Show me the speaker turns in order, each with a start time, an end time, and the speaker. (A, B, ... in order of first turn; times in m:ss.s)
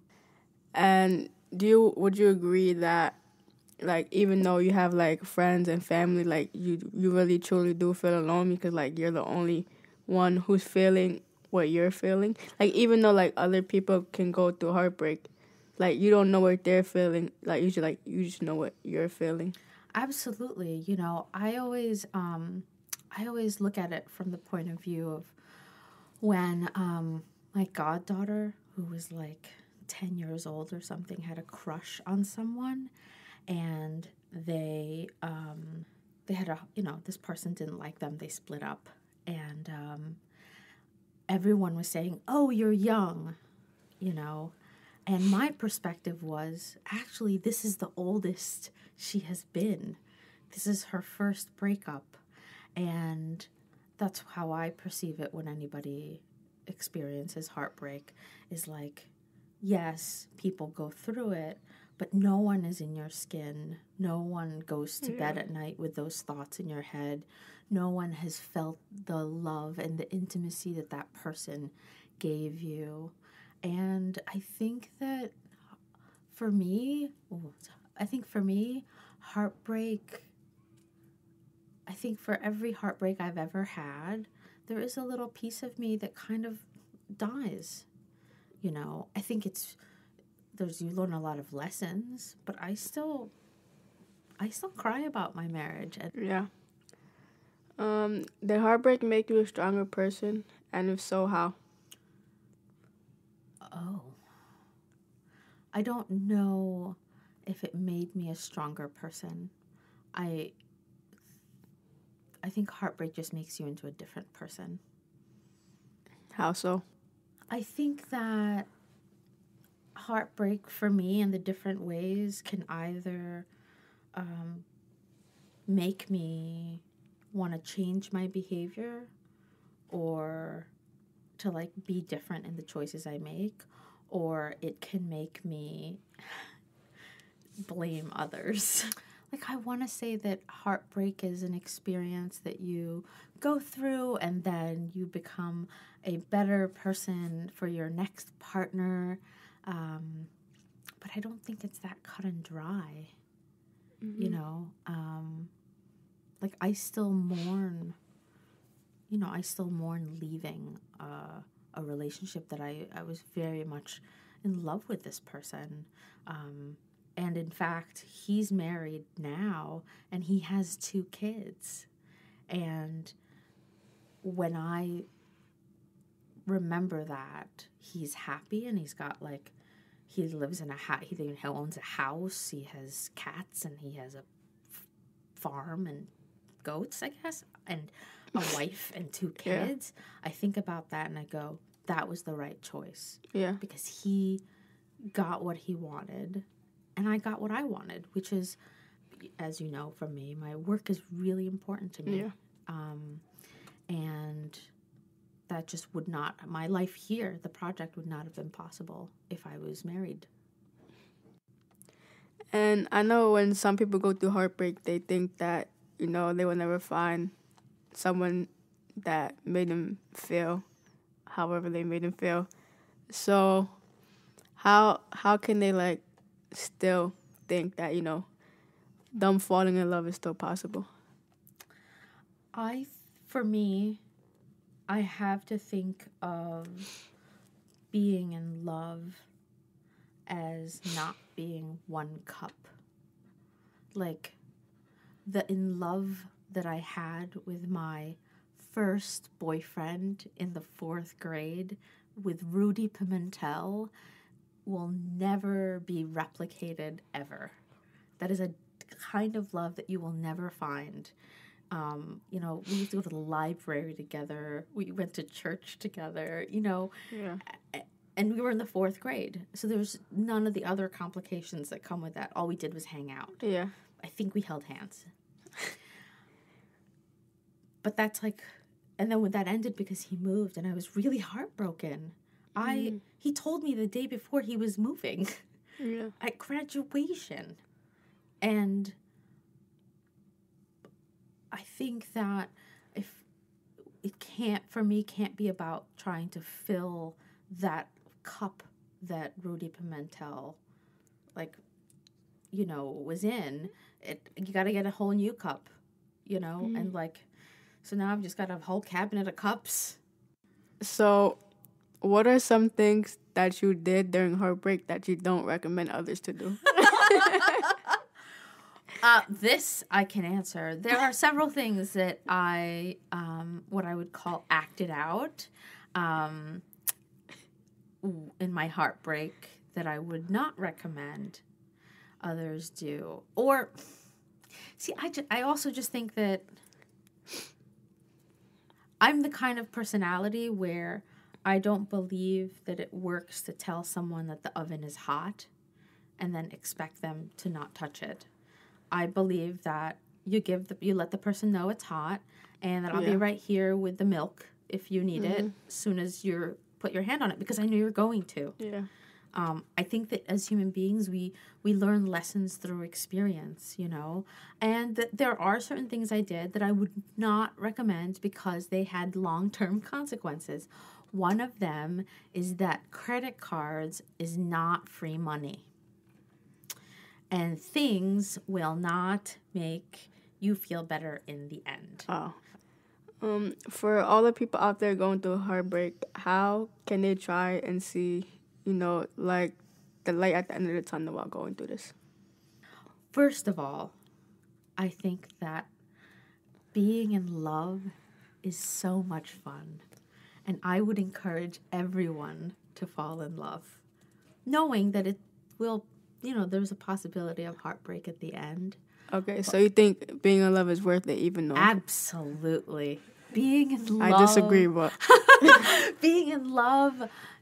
0:00.7-0:03.2 A
0:03.8-0:19.6 A
0:19.9-0:25.3 B
0:26.2-0:32.9 B
0:33.5-0:40.2 B
0:41.3-0:43.4 B
0:44.0-0:44.5 B
0:45.0-0:50.0 B
0:50.5-0:52.2 B
0:52.8-0:59.1 B
0:59.6-1:15.3 B
1:05.0-1:05.4 A
1:16.3-1:20.3 B
1:21.9-1:27.8 B
1:28.6-1:29.8 B
1:30.5-1:33.3 B
1:34.4-1:36.1 B
1:36.2-1:36.5 A
1:37.8-1:41.6 A
1:43.6-1:44.2 B
1:45.7-1:49.5 B
1:50.1-1:50.5 B
1:52.4-1:54.8 B
1:56.3-1:56.8 A
1:57.5-1:58.7 B
2:00.0-2:03.4 B
2:04.1-2:04.6 B
2:05.7-2:09.1 B
2:09.9-2:10.7 B
2:11.4-2:16.4 B
2:17.6-2:30.3 B
2:31.0-2:33.1 B
2:34.0-2:34.4 A
2:34.2-2:35.5 B
2:36.4-2:38.0 B
2:39.1-2:51.9 B
2:52.5-2:53.1 B
2:54.2-2:55.0 B
2:56.5-2:59.5 B
3:00.1-3:04.7 B
3:05.4-3:06.1 B
3:06.6-3:14.4 B
3:09.4-3:09.7 A
3:13.3-3:13.6 A
3:15.1-3:16.4 B
3:17.0-3:18.6 B
3:19.2-3:23.2 B
3:22.0-3:22.3 A
3:23.9-3:24.7 B
3:25.5-3:30.3 B
3:32.5-3:37.3 A
3:37.9-3:40.6 A
3:41.3-3:42.5 A
3:43.1-3:43.7 A
3:44.6-3:48.2 A
3:49.1-3:50.9 A
3:52.5-3:54.0 B
3:54.9-3:56.9 B
3:57.9-3:59.2 B
4:00.3-4:02.7 B
4:03.9-4:04.4 B
4:05.2-4:13.9 B
4:14.6-4:17.6 B
4:18.2-4:21.1 B
4:21.7-4:26.9 B
4:27.1-4:27.4 A
4:27.5-4:33.4 B
4:33.4-4:33.7 A
4:34.0-4:35.1 B
4:37.8-4:45.4 B
4:42.6-4:43.0 A
4:45.8-4:46.1 A
4:46.2-4:47.6 B
4:48.4-4:49.0 B
4:51.5-4:53.2 B
4:54.0-5:00.6 B
5:02.5-5:05.7 B
5:06.2-5:07.3 B
5:06.6-5:06.9 A
5:07.8-5:10.0 B
5:10.8-5:11.4 A
5:12.0-5:17.6 A
5:19.0-5:26.6 B
5:28.0-5:31.4 B
5:32.2-5:33.9 B
5:34.8-5:36.5 B
5:39.0-5:45.5 B
5:46.2-5:48.3 B
5:48.9-5:58.6 B
5:52.9-5:53.2 A
5:55.2-5:55.5 A
5:58.6-5:58.9 A
5:59.3-6:15.6 B
6:17.3-6:22.1 B
6:22.1-6:22.4 A
6:23.2-6:31.9 A
6:33.1-6:33.9 B
6:34.8-6:35.7 B
6:36.7-6:39.8 B
6:40.4-6:43.8 B
6:44.4-6:48.8 B
6:49.1-6:51.7 A
6:51.5-6:57.1 B
6:54.0-6:54.9 A